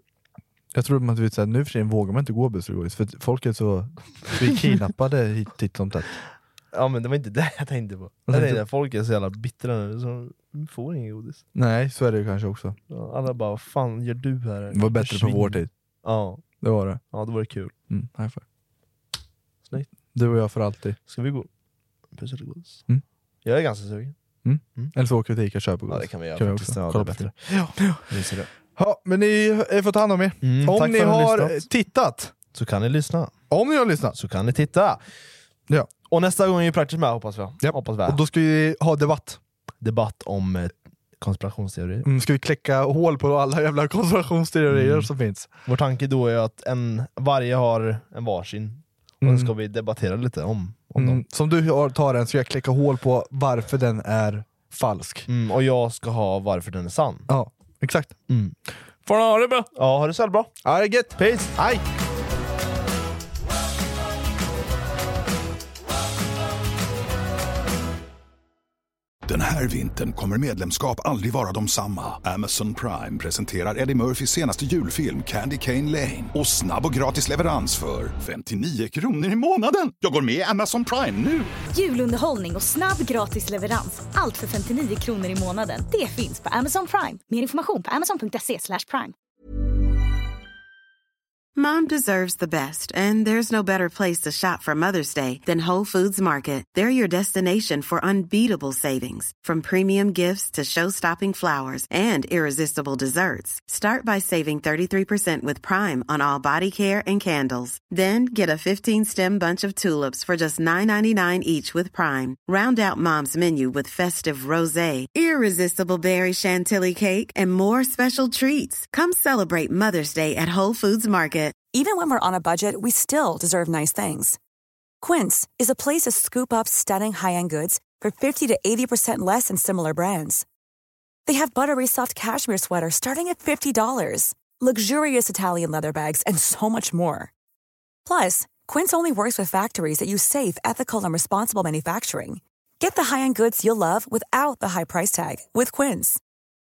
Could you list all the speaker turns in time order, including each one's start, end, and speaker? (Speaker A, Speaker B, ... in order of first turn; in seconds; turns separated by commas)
Speaker A: 0.7-6.1, Speaker B: 6.7-11.4, Speaker A: 8.3-8.6, Speaker A: 11.6-12.8, Speaker B: 12.9-16.4, Speaker A: 14.7-15.7, Speaker A: 16.6-17.0, Speaker B: 17.1-17.7, Speaker A: 17.9-18.4, Speaker A: 20.1-21.0, Speaker B: 21.1-21.5, Speaker B: 22.1-22.8, Speaker B: 23.4-24.1, Speaker A: 24.4-28.0, Speaker B: 25.9-27.3, Speaker B: 28.1-28.5, Speaker A: 28.8-32.3, Speaker B: 30.4-31.6, Speaker B: 32.5-33.3, Speaker A: 33.5-34.2, Speaker B: 34.1-35.0, Speaker B: 36.1-38.2, Speaker A: 37.6-39.4, Speaker B: 39.8-42.1, Speaker A: 42.0-45.5, Speaker B: 44.7-45.1, Speaker B: 45.7-51.2, Speaker A: 49.2-49.5, Speaker A: 51.0-55.3, Speaker B: 55.3-57.3, Speaker A: 57.3-58.2, Speaker B: 58.3-58.5, Speaker A: 59.1-59.7, Speaker B: 59.7-60.5, Speaker A: 60.6-61.8, Speaker B: 61.2-61.5, Speaker C: 69.3-81.5, Speaker D: 81.7-89.1, Speaker E: 91.6-121.6, Speaker F: 121.7-124.4, Speaker F: 125.0-130.4, Speaker F: 131.3-137.3, Speaker F: 138.1-146.2